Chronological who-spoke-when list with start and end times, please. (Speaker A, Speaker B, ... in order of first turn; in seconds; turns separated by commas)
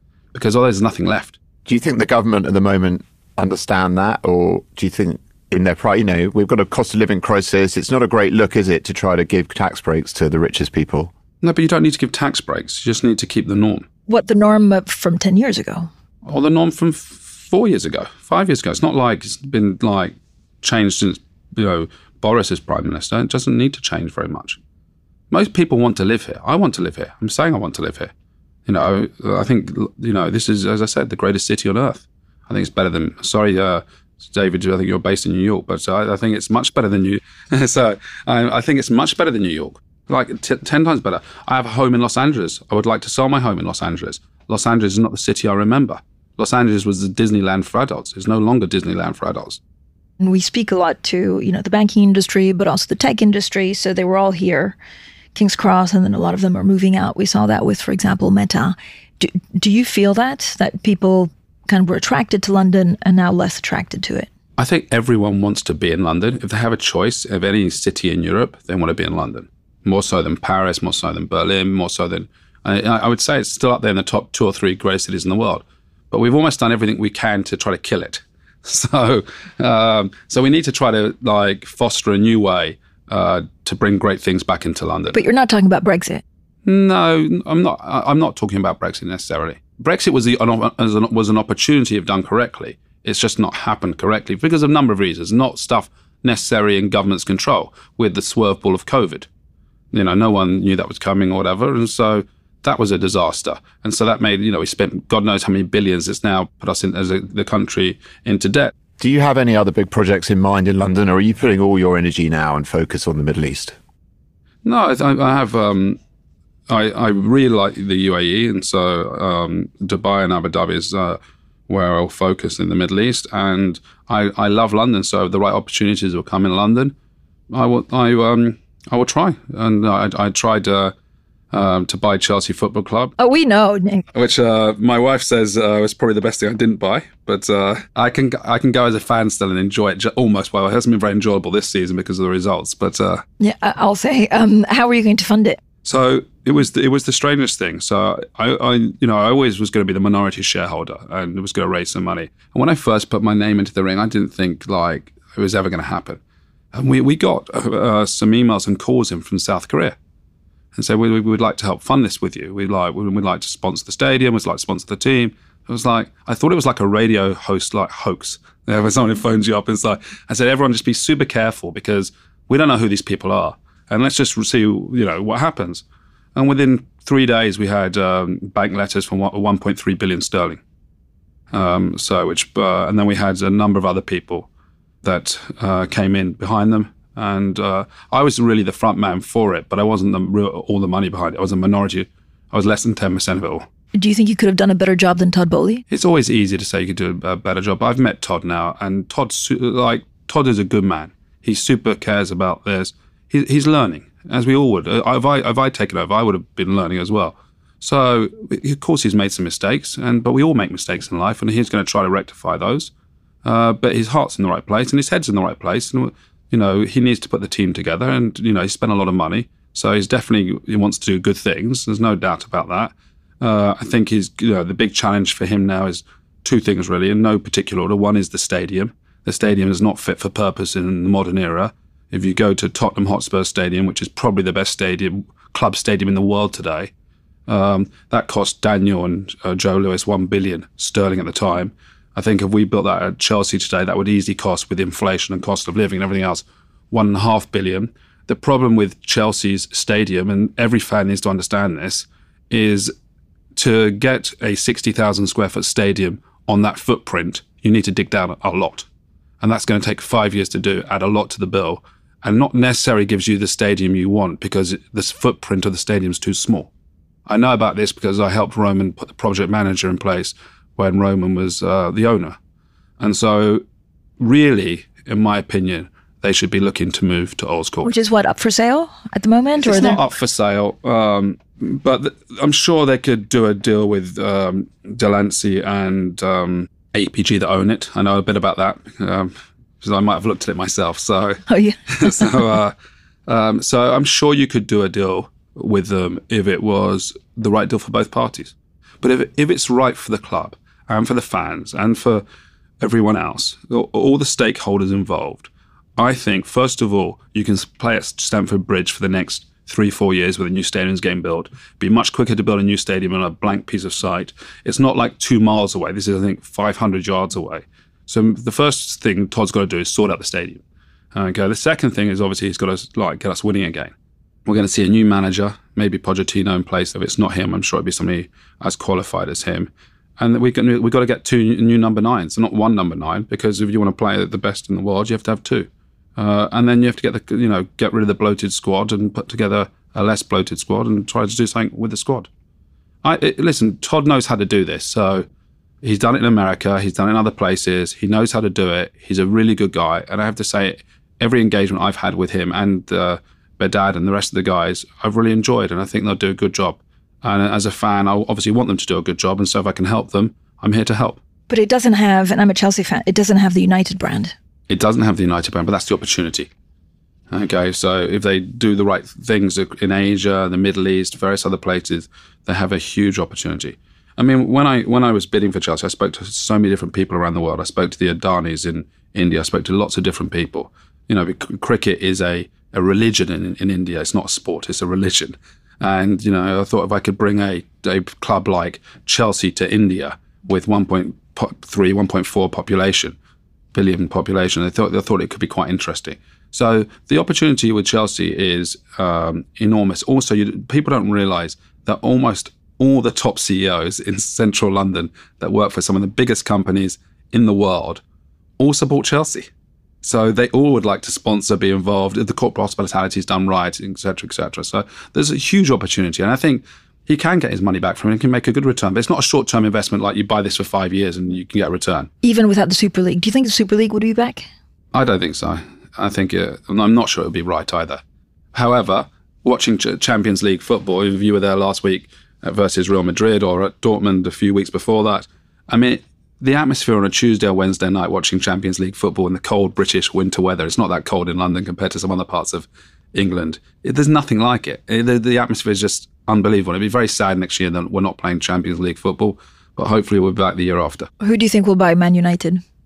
Speaker A: 0.3-1.4, Speaker B: 1.6-11.1, Speaker A: 11.4-13.9, Speaker C: 14.1-15.9, Speaker A: 16.3-24.6, Speaker A: 25.3-28.1, Speaker A: 28.7-49.6, Speaker C: 50.2-54.8, Speaker C: 55.4-64.3, Speaker A: 64.6-85.2, Speaker C: 85.1-86.2, Speaker A: 86.7-99.3, Speaker A: 99.9-108.7, Speaker B: 109.0-113.8, Speaker A: 114.7-116.0, Speaker A: 116.7-127.0, Speaker A: 127.5-130.9, Speaker A: 131.5-133.1, Speaker C: 133.2-134.1, Speaker A: 134.1-143.2, Speaker C: 143.4-145.6, Speaker A: 145.8-156.2, Speaker A: 156.7-160.0, Speaker A: 160.8-175.8, Speaker A: 176.3-180.6, Speaker A: 181.5-184.5, Speaker A: 185.0-193.7, Speaker C: 193.9-195.8, Speaker A: 195.9-212.9, Speaker A: 213.4-236.9, Speaker A: 237.5-252.9, Speaker A: 253.6-258.9, Speaker A: 259.4-266.7, Speaker A: 267.3-272.4, Speaker A: 273.0-273.6, Speaker A: 274.2-277.9, Speaker C: 277.8-280.0, Speaker A: 279.6-292.7, Speaker C: 291.5-292.6, Speaker A: 293.3-302.2, Speaker A: 302.8-320.6, Speaker A: 321.1-323.9, Speaker A: 324.5-342.3, Speaker A: 343.0-345.3, Speaker A: 345.8-361.2, Speaker C: 361.5-364.3, Speaker A: 364.7-366.5, Speaker A: 367.3-393.2, Speaker A: 393.7-408.0, Speaker A: 408.6-409.5, Speaker A: 410.0-422.1, Speaker C: 422.2-424.5, Speaker A: 424.9-428.0, Speaker A: 428.5-451.1, Speaker C: 451.2-452.6